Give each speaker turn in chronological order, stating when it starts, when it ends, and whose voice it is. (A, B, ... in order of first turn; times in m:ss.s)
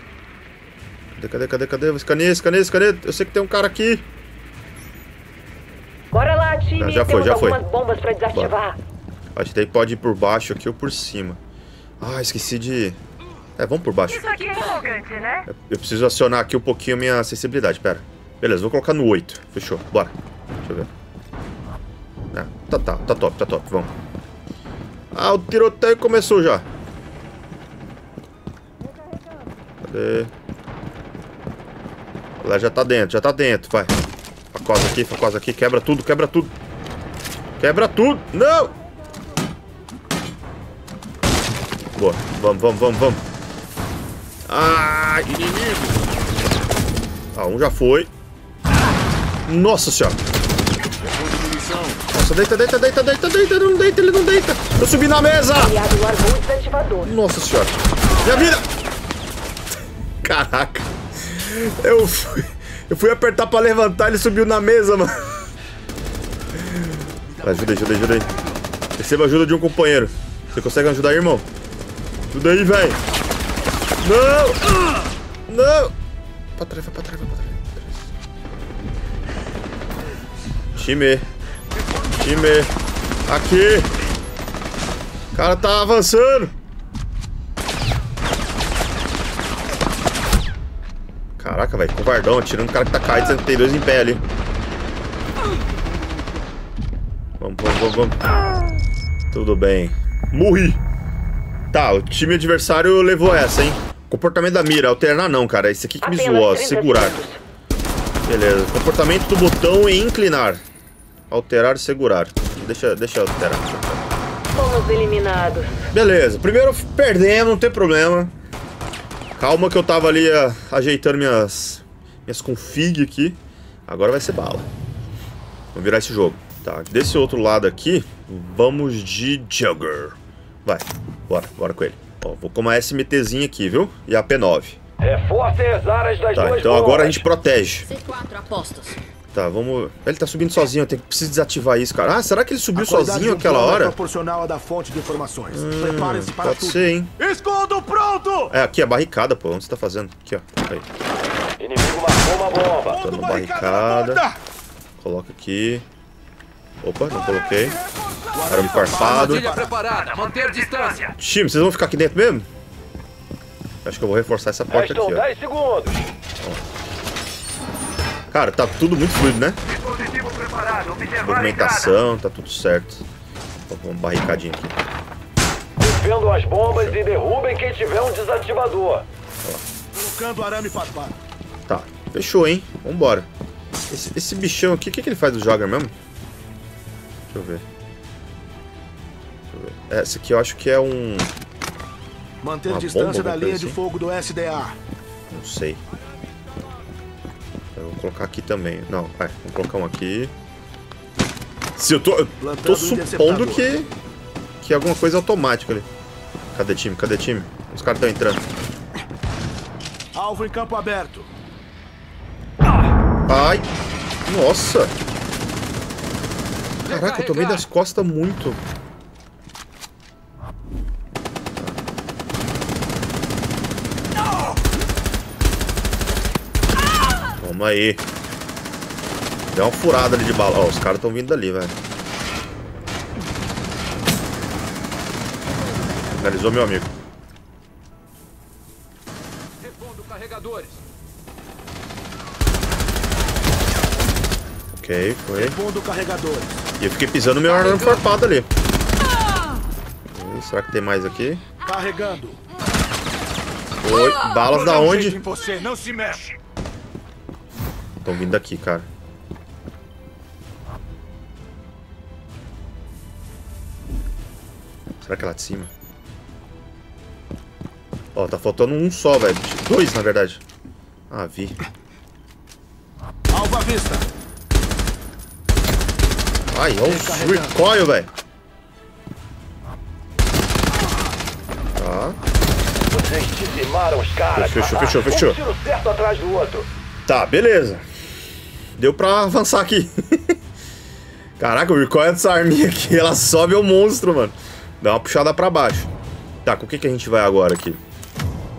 0:01.2-0:04.0 A
0:06.1-0:08.8 B
0:06.8-0:07.6 A
0:09.4-0:11.4 A
0:12.0-0:13.0 A
0:13.6-0:14.6 A
0:14.2-0:15.4 B
0:15.5-0:20.9 A
0:22.3-0:23.9 A
0:25.1-0:26.7 A
0:29.8-0:30.3 A
0:32.4-0:34.0 A
0:34.5-0:36.5 A
0:37.6-0:38.8 A
0:42.0-0:43.2 A
0:44.5-0:45.3 A
0:45.4-0:46.0 C
0:47.3-0:48.1 A
0:49.5-0:50.2 A
0:51.0-0:52.0 C
0:52.1-0:55.8 A
0:55.6-0:57.1 B
0:57.0-0:58.7 A
1:00.2-1:05.3 A
1:06.6-1:08.3 A
1:07.4-1:07.9 C
1:09.0-1:11.5 A
1:12.3-1:13.0 A
1:14.0-1:15.9 A
1:16.6-1:18.0 A
1:20.7-1:21.3 A
1:22.1-1:22.7 A
1:23.3-1:23.9 A
1:25.3-1:26.5 A
1:31.4-1:34.2 A
1:37.4-1:38.2 A
1:39.3-1:40.8 A
1:41.7-1:47.2 A
1:46.0-1:47.4 B
1:48.3-1:50.6 A
1:51.3-1:54.1 A
1:54.5-1:55.7 B
1:55.9-1:58.3 A
1:59.4-2:04.7 A
2:05.7-2:14.8 A
2:15.0-2:17.2 D
2:16.3-2:17.9 A
2:18.0-2:19.0 B
2:19.3-2:24.0 A
2:22.8-2:28.5 C
2:25.5-2:27.1 A
2:28.5-2:30.9 A
2:31.6-2:33.0 D
2:32.9-2:34.4 C
2:32.9-2:34.2 A
2:35.0-2:35.9 A
2:36.8-2:37.8 A
2:38.3-2:40.2 C
2:38.5-2:39.5 A
2:39.0-2:41.1 E
2:41.1-2:42.5 A
2:43.8-2:45.3 A
2:44.7-2:46.1 D
2:48.3-2:49.6 A
2:50.0-2:51.0 E
2:51.0-2:53.1 A
2:53.7-2:54.8 A
2:55.8-2:59.1 D
2:56.7-2:57.0 A
2:59.9-3:01.2 C
3:01.7-3:03.3 A
3:03.9-3:05.9 A
3:07.3-3:07.6 A
3:09.5-3:11.3 A
3:12.4-3:14.8 C
3:12.7-3:13.8 A
3:15.3-3:15.8 A
3:17.8-3:20.3 A
3:21.8-3:23.9 A
3:22.4-3:23.7 C
3:24.6-3:25.9 A
3:26.5-3:28.4 A
3:30.1-3:31.3 C
3:33.3-3:33.7 A
3:34.3-3:35.0 A
3:36.8-3:38.6 A
3:36.9-3:37.6 E
3:47.4-3:48.0 A
3:49.5-3:51.8 A
3:56.1-3:56.9 A
3:59.6-4:00.8 E
4:04.7-4:05.6 A
4:05.4-4:06.5 C
4:06.8-4:08.5 A
4:10.1-4:11.4 A
4:11.6-4:12.4 C
4:13.8-4:15.2 A
4:14.6-4:16.3 C
4:18.0-4:18.9 A
4:25.0-4:25.7 A
4:28.2-4:30.4 A
4:31.1-4:31.6 A
4:33.3-4:34.1 C
4:36.5-4:38.1 A
4:36.8-4:37.6 C
4:41.8-4:42.2 A
4:42.9-4:46.7 D
4:44.4-4:45.4 A
4:47.1-4:47.9 A
4:48.8-4:50.4 A
4:51.4-4:55.9 A
4:56.4-4:57.8 A